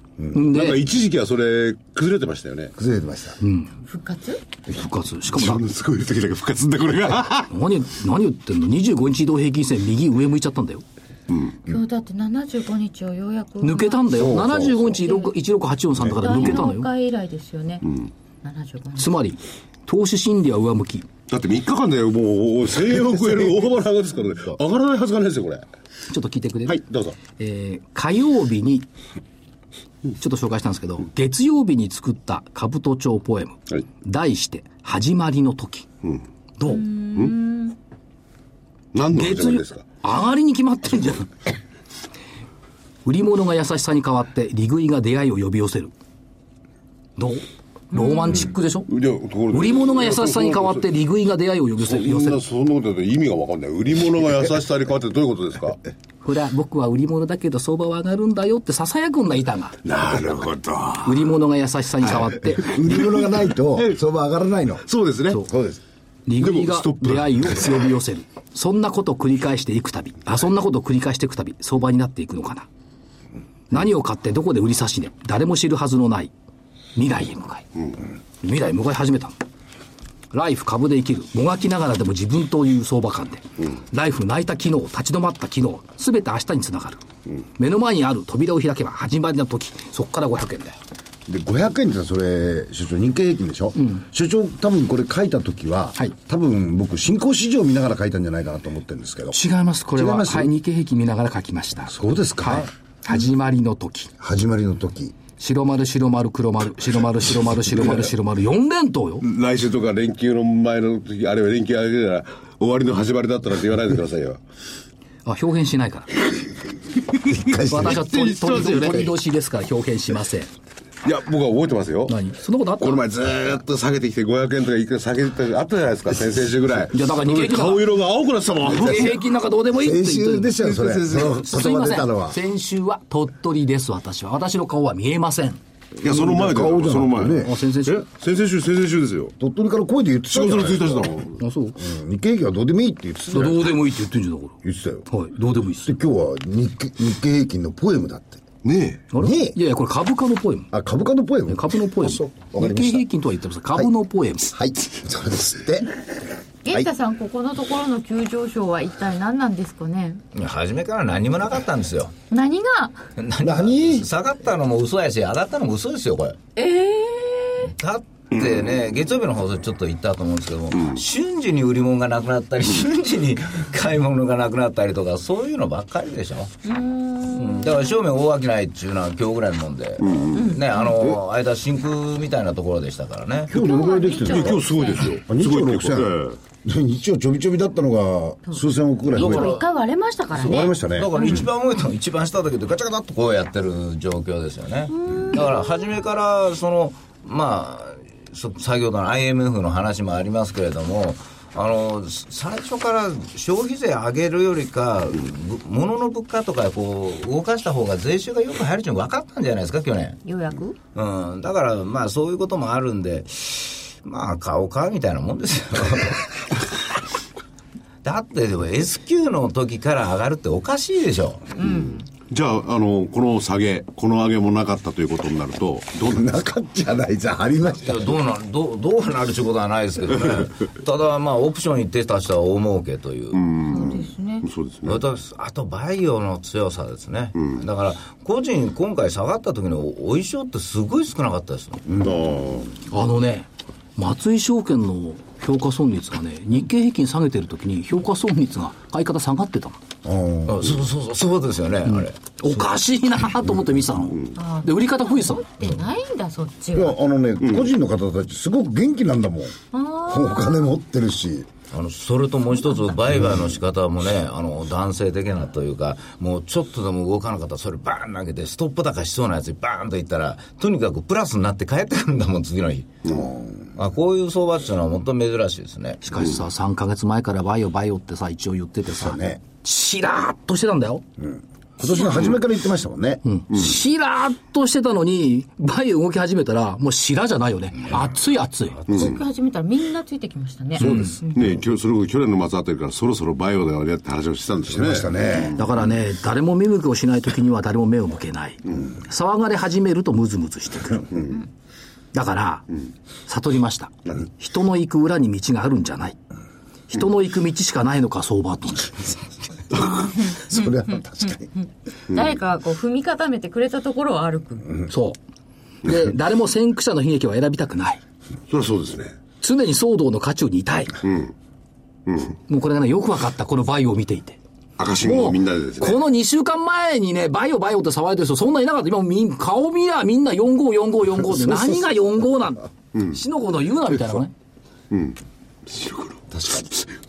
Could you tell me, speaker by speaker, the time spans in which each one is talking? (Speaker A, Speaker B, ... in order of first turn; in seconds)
Speaker A: 0.3-0.8, 3.4-3.7, 4.7-5.6, 7.4-10.8, 13.6-16.9, 18.9-21.1, 26.1-28.9, 30.2-35.9, 36.6-36.9, 39.1-41.3, 43.0-45.9, 47.2-48.9, 49.5-52.4, 56.2-59.8, 61.0-62.7, 66.3-72.7, 73.7-76.3, 77.0-77.7, 78.4-79.3, 80.3-87.0, 87.6-90.8, 99.3-104.1, 105.4-109.2, 115.2-116.1, 117.6-120.5, 122.1-123.0, 126.9-127.9, 128.6-135.6, 137.3-138.1, 141.4-141.8, 143.3-145.9, 149.1-150.7, 151.5-154.5, 242.9-249.8, 251.9-255.4, 276.0-281.0, 283.2-288.8, 290.8-291.2, 295.6-301.2, 302.1-302.7, 303.3-306.2, 306.9-309.2, 314.9-315.2, 315.8-318.0, 319.4-320.9, 322.5-324.4, 325.0-334.3
Speaker B: 0.5-2.7, 5.3-7.5, 11.3-11.6, 21.3-25.6, 26.6-27.2, 38.9-39.9, 48.9-50.9, 51.8-55.8, 59.8-61.3, 62.1-63.9, 64.8-65.5, 66.4-67.8, 109.2-114.4, 117.9-119.1, 121.0-122.2, 122.8-129.2, 130.7-131.3, 136.0-139.3, 140.3-141.4, 148.6-149.0, 180.0-180.4, 184.2-186.4, 221.7-226.2, 233.3-235.0, 242.0-242.7, 288.9-289.2, 290.8-295.6, 318.5-319.2, 321.0-321.3, 322.1-322.4, 324.8-326.0, 334.9-336.9
Speaker C: 2.8-3.4, 14.4-14.8, 62.6-64.8, 65.5-65.8, 91.3-99.4, 99.9-100.5, 101.9-102.7, 104.2-105.2, 117.3-118.0, 129.7-132.4, 136.1-137.5, 139.4-141.1, 141.8-143.8, 144.6-145.1, 145.8-148.4, 149.2-149.6, 150.7-153.1, 154.5-155.9, 163.4-164.1, 183.5-184.7, 185.2-189.6, 190.4-191.2, 226.1-228.1, 241.9-242.2, 250.0-250.8, 256.7-261.5, 273.1-273.6, 279.0-279.4, 281.2-283.2, 294.7-295.6, 310.3-311.5
Speaker D: 3.8-4.4, 11.7-14.2, 14.9-15.3, 16.2-17.9, 18.4-19.1, 36.6-37.8, 47.9-48.4, 156.7-160.2, 162.3-163.1, 166.6-167.7, 176.7-178.0, 180.3-180.9, 183.5-185.1, 189.1-191.5, 194.9-195.9, 210.2-210.8, 221.6-222.1, 233.7-234.5, 254.3-257.0, 259.7-260.6, 281.8-282.2, 288.9-291.5, 309.8-314.8
Speaker E: 160.3-162.1, 163.2-166.4, 167.7-176.5, 177.3-183.5, 189.1-189.7, 190.3-210.2, 210.9-216.6, 218.0-221.6, 227.8-233.4, 234.8-241.8, 250.4-252.4, 261.7-272.9, 273.8-276.0